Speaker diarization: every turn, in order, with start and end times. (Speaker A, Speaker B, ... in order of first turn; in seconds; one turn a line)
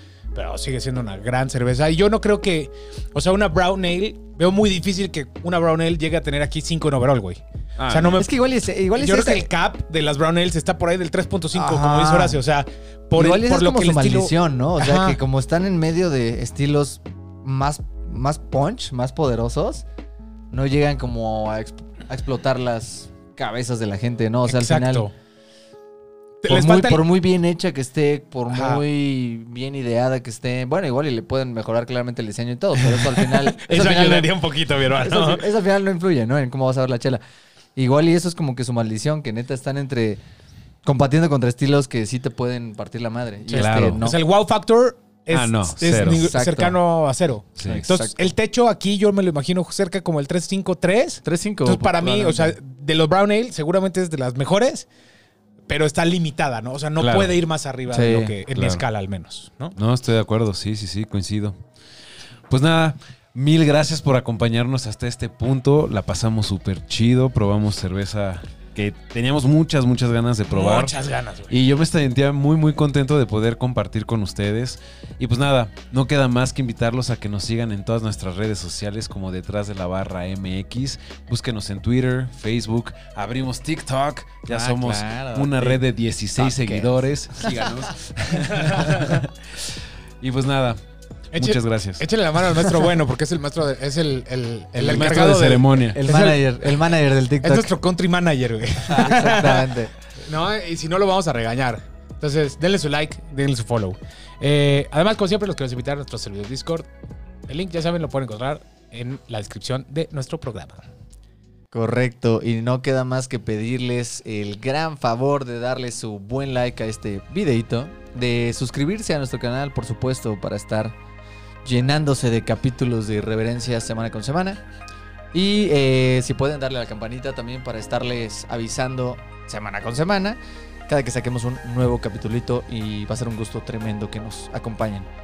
Speaker A: 0.3-8.3
Speaker B: 7.8-8.2
Speaker C: 8.2-9.5
Speaker A: 9.0-15.2
Speaker C: 11.5-12.4
Speaker C: 13.2-19.9
Speaker C: 20.5-25.1
Speaker A: 24.5-25.1
Speaker A: 26.4-27.1
Speaker C: 26.5-34.3
Speaker A: 28.5-28.8
Speaker A: 32.9-35.5
Speaker C: 35.0-37.2
Speaker C: 37.8-40.2
Speaker C: 40.9-44.2
Speaker B: 43.5-44.0
Speaker A: 43.6-54.9
Speaker B: 45.3-46.3
Speaker C: 45.9-46.8
Speaker B: 47.6-47.9
Speaker C: 47.6-48.3
Speaker C: 51.2-52.5
Speaker A: 55.7-59.8
Speaker B: 57.0-57.3
Speaker C: 57.9-58.4
Speaker B: 58.5-58.8
Speaker B: 59.8-61.6
Speaker B: 62.5-71.0
Speaker A: 70.5-71.6
Speaker B: 71.5-90.8
Speaker C: 84.5-85.8
Speaker C: 86.4-87.5
Speaker A: 88.6-88.9
Speaker A: 91.3-106.9
Speaker B: 91.3-92.1
Speaker C: 94.8-95.2
Speaker B: 94.8-96.0
Speaker C: 95.9-97.7
Speaker C: 98.9-99.9
Speaker A: 107.5-110.8
Speaker C: 111.7-121.0
Speaker C: 121.6-124.6
Speaker C: 125.3-135.1